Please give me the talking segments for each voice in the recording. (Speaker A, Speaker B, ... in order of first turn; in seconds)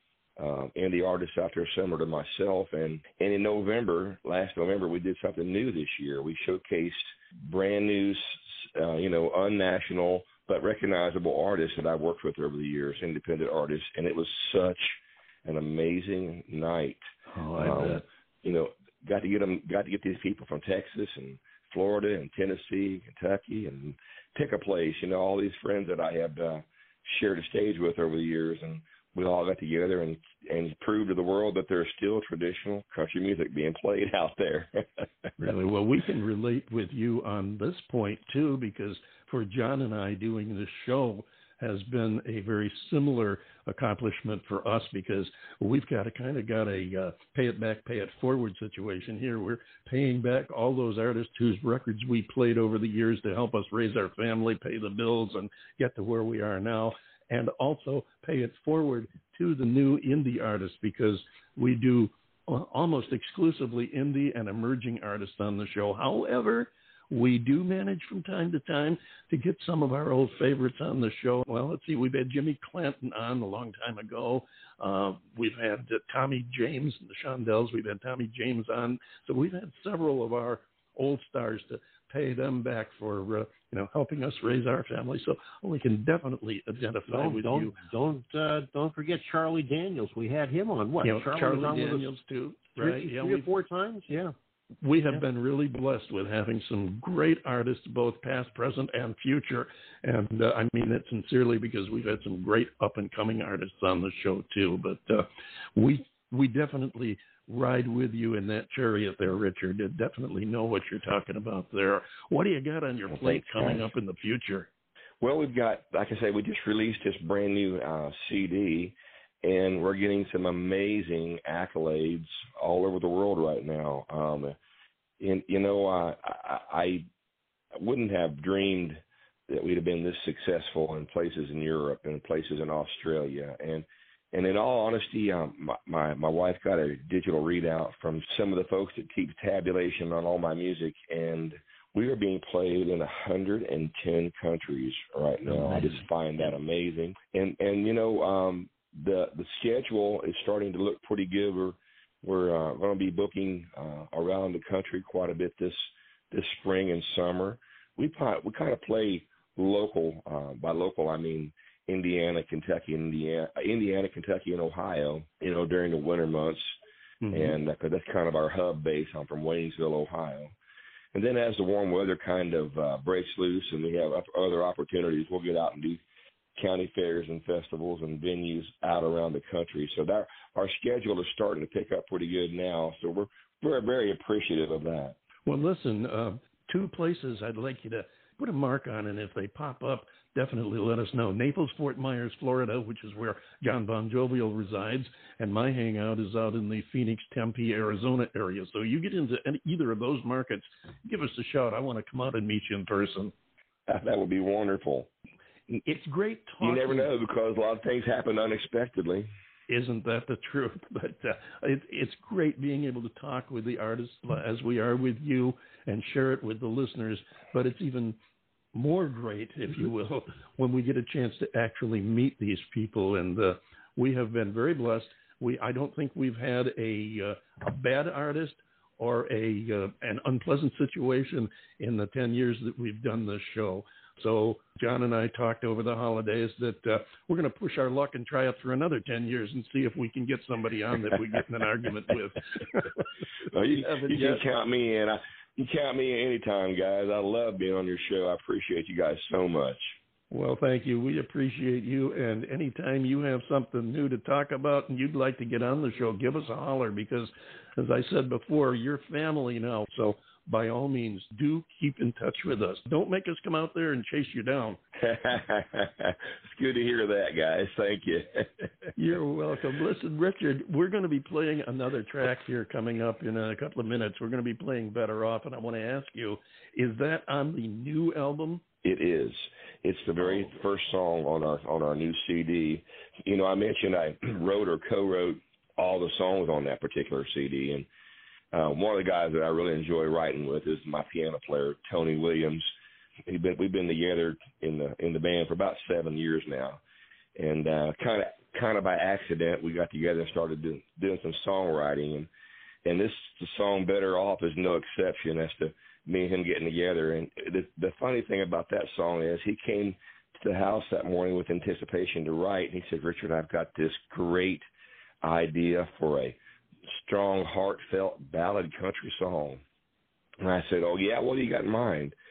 Speaker A: 0.4-17.0, 17.6-35.3, 113.2-113.8, 115.2-124.5, 125.2-127.1, 127.8-166.7, 167.3-170.5, 171.1-176.0, 176.6-185.2, 203.9-205.1, 206.6-209.3, 243.5-249.9, 265.0-268.7, 278.8-287.9, 288.5-292.7, 293.3-296.8, 297.4-302.3, 302.8-314.6, 315.2-316.4, 317.0-319.6, 320.4-322.1
Speaker B: 17.3-18.0, 35.4-87.7, 91.0-93.5, 94.8-114.7, 145.4-146.0, 167.2-167.6, 185.4-203.3, 205.8-207.1, 209.7-218.2, 218.7-243.0, 243.8-244.4, 250.3-264.8, 268.9-278.6
Speaker C: 87.1-92.1, 92.8-94.3